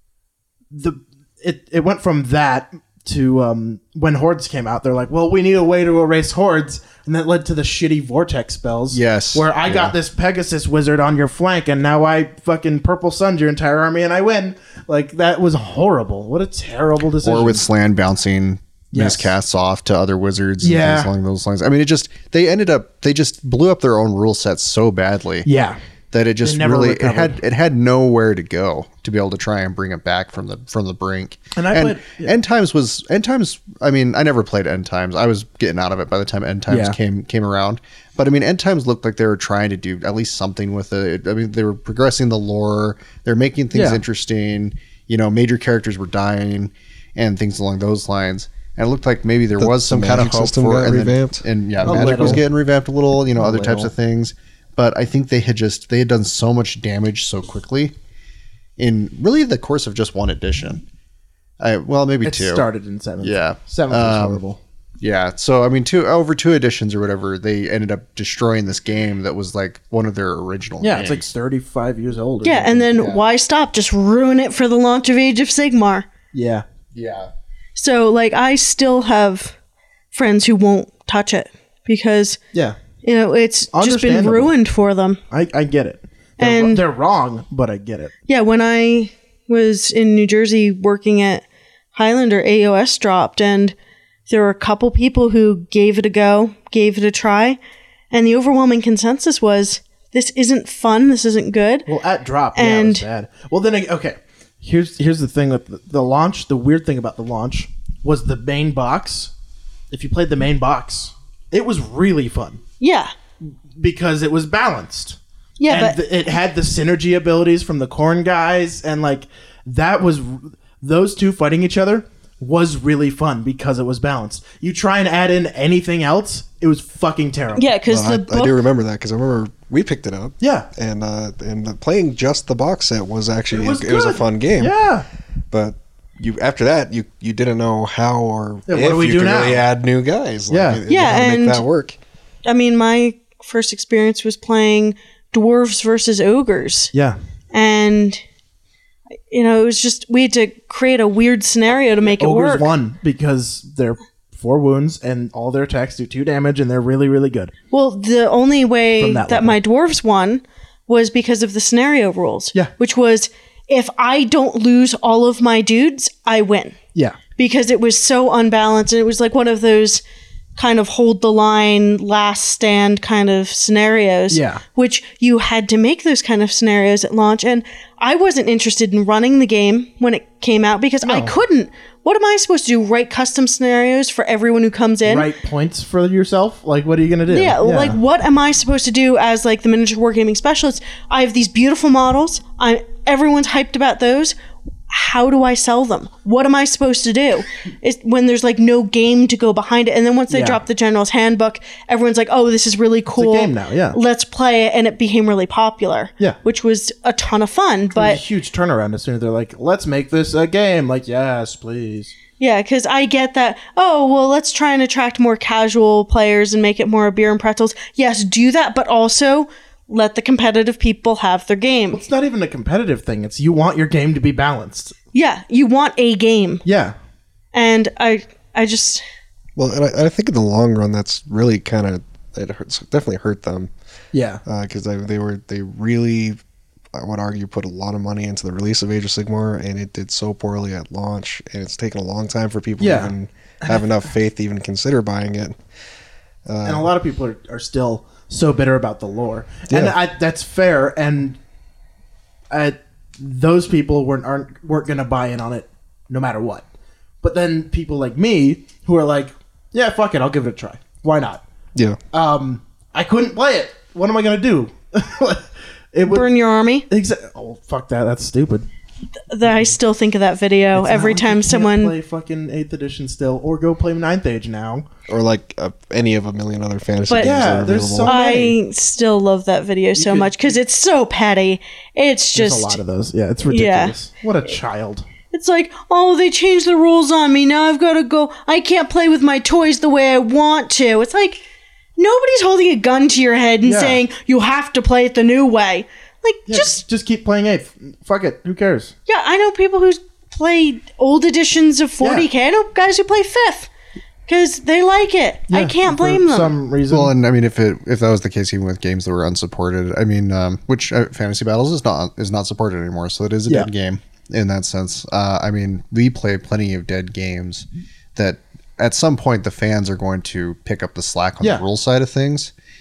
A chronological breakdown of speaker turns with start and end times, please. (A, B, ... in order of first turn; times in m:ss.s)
0:00.7-0:17.6 A
0:08.9-0:10.0 B
0:17.2-0:25.5 B
0:18.9-0:19.4 A
0:20.6-0:21.1 A
0:25.4-0:25.8 A
0:26.1-0:57.9 B
0:26.4-0:27.4 A
0:31.6-0:32.4 A
0:36.7-0:37.0 A
0:43.7-0:44.0 A
0:49.6-0:52.4 C
0:51.8-0:52.4 A
0:53.4-0:53.9 C
0:58.8-1:00.8 B
1:01.6-1:02.7 B
1:02.2-1:04.6 A
1:03.2-1:04.4 B
1:05.0-1:11.3 B
1:10.8-1:13.0 A
1:12.4-1:16.1 D
1:12.9-1:13.2 B
1:16.3-1:16.7 A
1:16.9-1:17.3 B
1:17.8-1:19.6 D
1:20.1-1:22.4 D
1:22.5-1:22.8 A
1:23.0-1:25.2 D
1:23.7-1:24.5 A
1:25.3-1:28.1 A
1:26.4-1:26.8 D
1:28.3-1:33.8 D
1:34.3-1:37.6 D
1:38.1-1:41.9 D
1:41.9-1:49.3 A
1:42.6-1:43.0 D
1:49.9-1:52.6 A
1:52.8-1:53.1 D
1:53.4-2:07.7 A
1:55.6-1:56.0 D
2:07.6-2:08.6 D
2:07.9-2:14.8 C
2:10.4-2:10.7 A
2:13.5-2:15.1 A
2:15.5-2:22.0 C
2:18.7-2:19.6 A
2:20.5-2:20.8 A
2:20.9-2:21.6 D
2:22.4-2:26.9 D
2:26.9-2:27.2 A
2:27.5-2:28.2 D
2:29.3-2:32.7 D
2:32.2-2:37.5 A
2:37.7-2:46.8 D
2:39.0-2:39.6 A
2:46.9-2:47.2 A
2:47.4-2:50.0 D
2:50.6-3:05.3 D
2:54.3-2:54.6 A
3:01.0-3:01.4 A
3:05.0-3:08.0 A
3:07.3-3:14.4 D
3:14.9-3:28.2 D
3:20.3-3:20.6 A
3:23.1-3:24.0 A
3:27.9-3:32.1 A
3:32.4-3:42.0 D
3:41.9-3:45.0 A
3:45.1-3:46.6 D
3:46.6-3:47.0 A
3:47.5-3:49.0 D
3:49.6-3:53.7 C
3:54.1-3:54.4 A
3:54.4-3:56.4 C
3:56.9-4:05.6 C
4:02.8-4:03.1 A
4:06.4-4:06.9 C
4:06.6-4:11.4 A
4:09.7-4:10.0 C
4:12.5-4:16.7 A
4:17.2-4:21.4 A
4:22.1-4:26.3 A
4:26.1-4:26.9 D
4:26.9-4:28.7 A
4:29.3-4:32.0 D
4:29.4-4:29.8 A
4:30.7-4:34.9 A
4:35.1-4:38.2 C
4:37.2-4:38.6 A
4:38.0-4:42.8 D
4:40.0-4:40.6 A
4:42.4-4:45.1 A
4:43.5-4:43.9 D
4:45.3-4:51.4 D
4:52.0-4:56.8 D
4:53.6-4:54.0 A
4:56.5-4:58.9 A
4:59.1-5:03.7 D
5:02.0-5:02.3 A
5:04.3-5:06.5 D
5:05.5-5:07.1 A
5:06.9-5:22.5 B